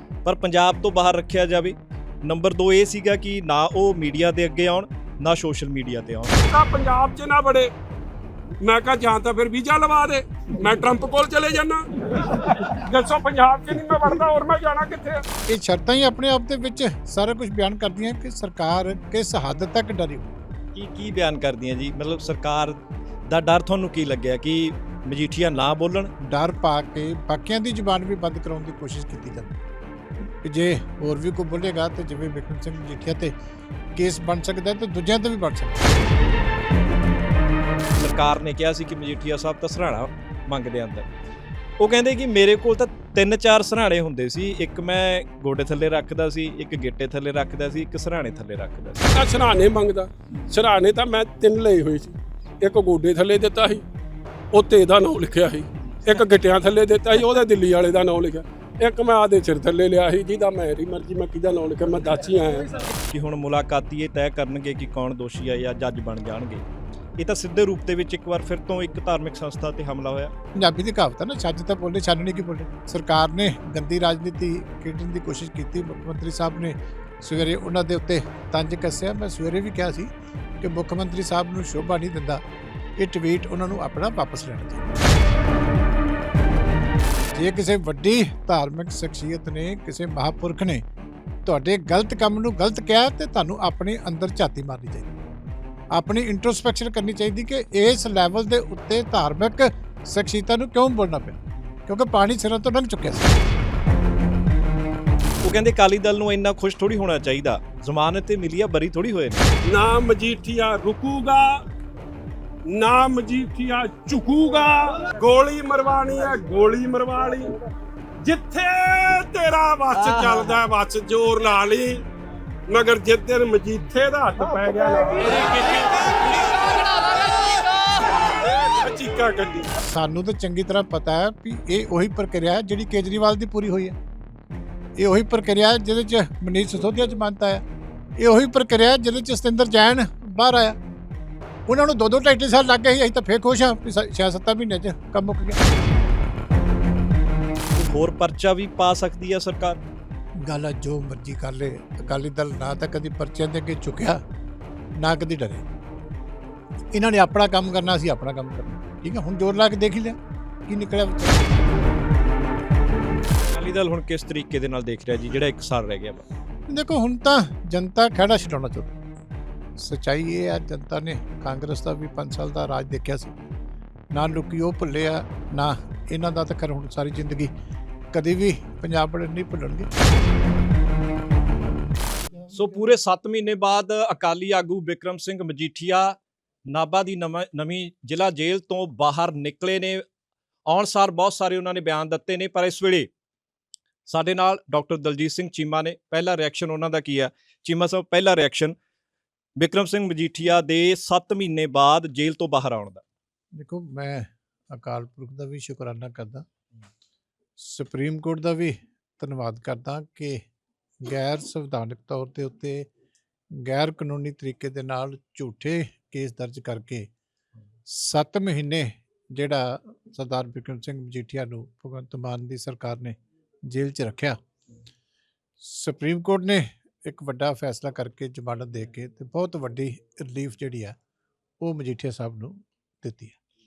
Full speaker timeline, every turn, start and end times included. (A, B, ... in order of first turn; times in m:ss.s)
0:00.2-0:06.4 A
0:06.4-0:07.7 B
0:08.6-0:15.2 B
0:15.5-0:20.3 C
0:20.7-0:26.1 A
0:26.2-0:29.6 C
0:30.3-0:33.3 C
0:33.9-0:35.9 C
0:38.0-0:41.1 A
0:41.8-0:49.1 A
0:49.1-0:53.8 B
0:54.5-1:02.8 B
1:02.9-1:06.6 A
1:07.2-1:10.3 A
1:10.6-1:22.4 C
1:23.0-1:24.8 C
1:27.3-1:30.8 C
1:31.4-1:35.1 C
1:35.9-1:43.3 C
1:45.4-1:49.5 A
1:49.6-1:51.6 B
1:52.7-1:57.6 B
1:58.2-2:02.0 B
2:02.7-2:07.6 B
2:08.4-2:09.8 B
2:09.9-2:13.9 C
2:15.0-2:17.6 C
2:18.2-2:20.8 C
2:21.7-2:25.6 C
2:27.7-2:29.8 A
2:30.4-2:34.2 C
2:35.0-2:35.6 C
2:36.9-2:41.6 C
2:43.5-2:46.2 A
2:46.7-2:49.0 C
2:49.8-2:53.4 C
2:54.1-2:57.5 C
2:58.1-2:59.9 C
3:02.5-3:06.2 A
3:06.7-3:10.0 A
3:10.7-3:13.1 A
3:14.1-3:18.8 A
3:19.6-3:23.0 A
3:23.5-3:26.4 C
3:27.6-3:30.4 C
3:31.0-3:32.9 C
3:33.5-3:37.1 C
3:37.9-3:43.1 C
3:43.7-3:44.4 C
3:45.6-3:51.0 C
3:51.6-3:53.3 C